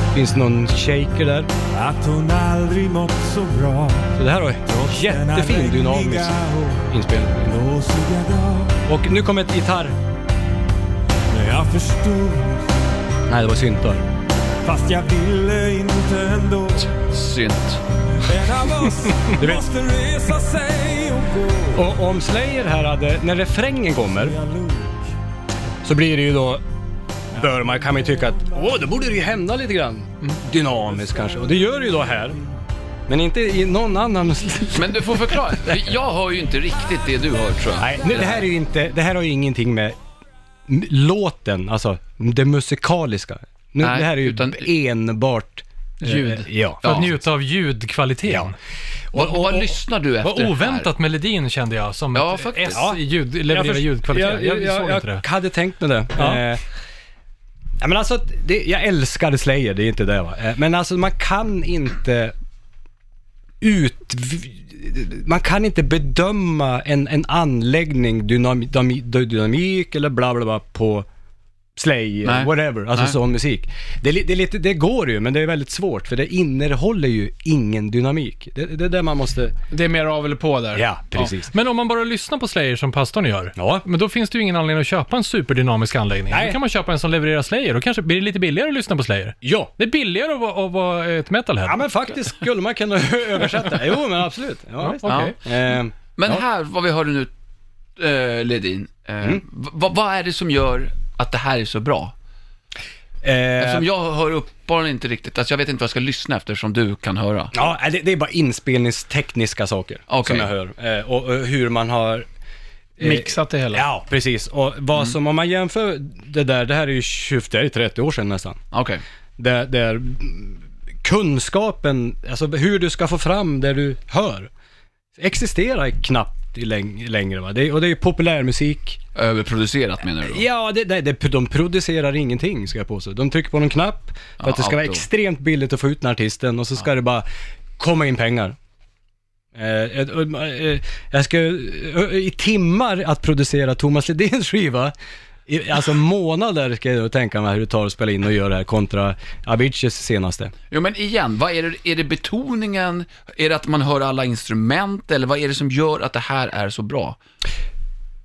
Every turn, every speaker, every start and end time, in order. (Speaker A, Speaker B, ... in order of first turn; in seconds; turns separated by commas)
Speaker A: 0.1-1.5, Speaker B: 1.7-8.8, Speaker A: 4.2-6.4, Speaker A: 6.9-7.6, Speaker A: 8.9-10.0, Speaker B: 11.3-12.8, Speaker A: 13.3-14.1, Speaker B: 14.6-16.9, Speaker C: 17.0-17.8, Speaker B: 18.2-21.9, Speaker A: 19.4-19.7, Speaker A: 21.7-24.4, Speaker B: 24.2-25.0, Speaker A: 25.8-26.6, Speaker A: 27.3-32.4, Speaker A: 33.1-35.4, Speaker C: 34.7-38.5, Speaker A: 37.8-40.0, Speaker A: 40.7-47.1, Speaker C: 43.8-44.7, Speaker D: 46.0-48.5, Speaker C: 46.8-47.1, Speaker A: 48.3-48.5, Speaker A: 49.1-49.7, Speaker C: 49.1-50.9, Speaker D: 50.2-55.2, Speaker C: 52.1-52.9, Speaker A: 52.7-56.6, Speaker A: 57.8-62.3, Speaker A: 63.6-71.1, Speaker A: 71.8-79.5, Speaker C: 72.2-73.2, Speaker E: 79.7-81.3, Speaker A: 80.7-81.5, Speaker D: 81.5-91.8, Speaker A: 83.6-83.8, Speaker A: 86.3-86.6, Speaker A: 89.4-89.7, Speaker A: 91.7-96.4, Speaker D: 94.8-95.3, Speaker C: 95.0-95.3, Speaker C: 96.2-97.3, Speaker C: 98.0-102.1, Speaker A: 103.2-103.9, Speaker C: 103.6-107.5, Speaker A: 107.5-112.3, Speaker C: 110.1-110.5, Speaker A: 113.0-118.6, Speaker E: 113.0-113.8, Speaker C: 118.7-119.0, Speaker A: 119.4-124.5, Speaker A: 125.2-129.0, Speaker C: 129.2-130.4, Speaker A: 130.2-137.3, Speaker C: 134.4-135.0, Speaker A: 137.8-138.6, Speaker A: 139.6-144.9, Speaker A: 145.5-150.5, Speaker C: 150.7-157.2